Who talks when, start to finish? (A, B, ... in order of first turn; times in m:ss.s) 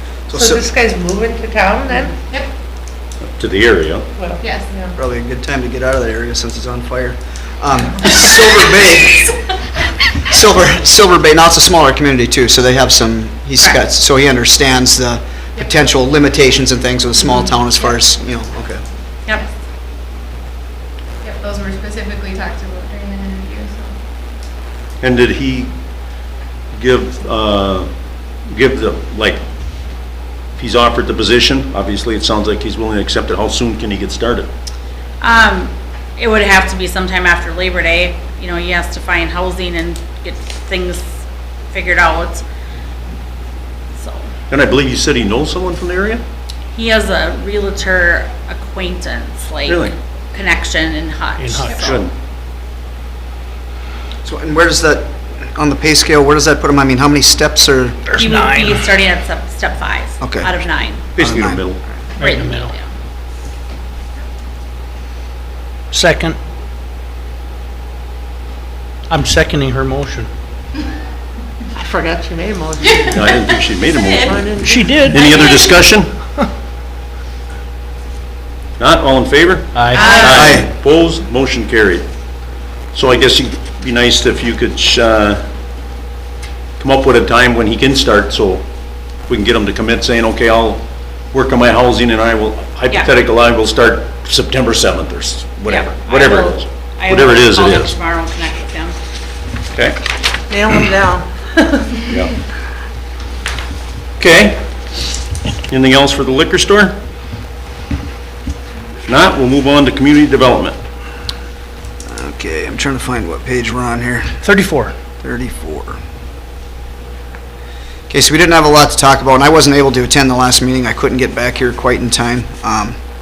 0:00.3-0:00.6 A
0:00.3-0:02.1 B
0:03.4-0:04.0 C
0:04.2-0:04.9 B
0:04.4-0:04.7 D
0:05.0-0:09.5 A
0:10.2-0:18.8 A
0:21.2-0:24.0 D
0:25.0-0:25.7 C
0:26.8-0:27.9 C
0:28.5-0:29.4 C
0:30.6-0:34.5 C
0:35.2-0:41.1 E
0:41.7-0:42.4 E
0:44.0-0:44.3 E
0:44.5-0:46.2 C
0:46.7-0:52.0 E
0:49.7-0:49.9 C
0:51.4-0:51.9 F
0:51.8-0:52.1 C
0:54.2-0:58.1 A
0:58.1-0:58.9 F
0:58.2-1:01.0 E
1:00.2-1:00.5 A
1:01.2-1:01.8 C
1:01.2-1:01.6 A
1:02.2-1:02.7 F
1:02.2-1:02.9 E
1:05.9-1:06.4 F
1:09.1-1:10.3 F
1:11.8-1:13.3 B
1:12.8-1:13.5 D
1:13.1-1:14.6 C
1:13.9-1:14.4 E
1:14.2-1:15.1 B
1:14.6-1:15.3 F
1:15.1-1:16.1 C
1:15.2-1:15.8 E
1:18.8-1:22.1 C
1:19.7-1:20.5 F
1:19.9-1:20.5 D
1:20.2-1:20.7 A
1:22.9-1:25.4 C
1:26.8-1:28.6 C
1:29.3-1:37.9 C
1:35.7-1:39.0 E
1:39.7-1:40.0 C
1:40.5-1:42.1 B
1:42.1-1:42.4 C
1:44.2-1:44.6 C
1:45.7-1:47.0 C
1:49.1-1:50.8 C
1:52.1-1:54.4 A
1:54.4-1:55.0 F
1:55.2-1:56.0 A
1:58.1-2:03.0 A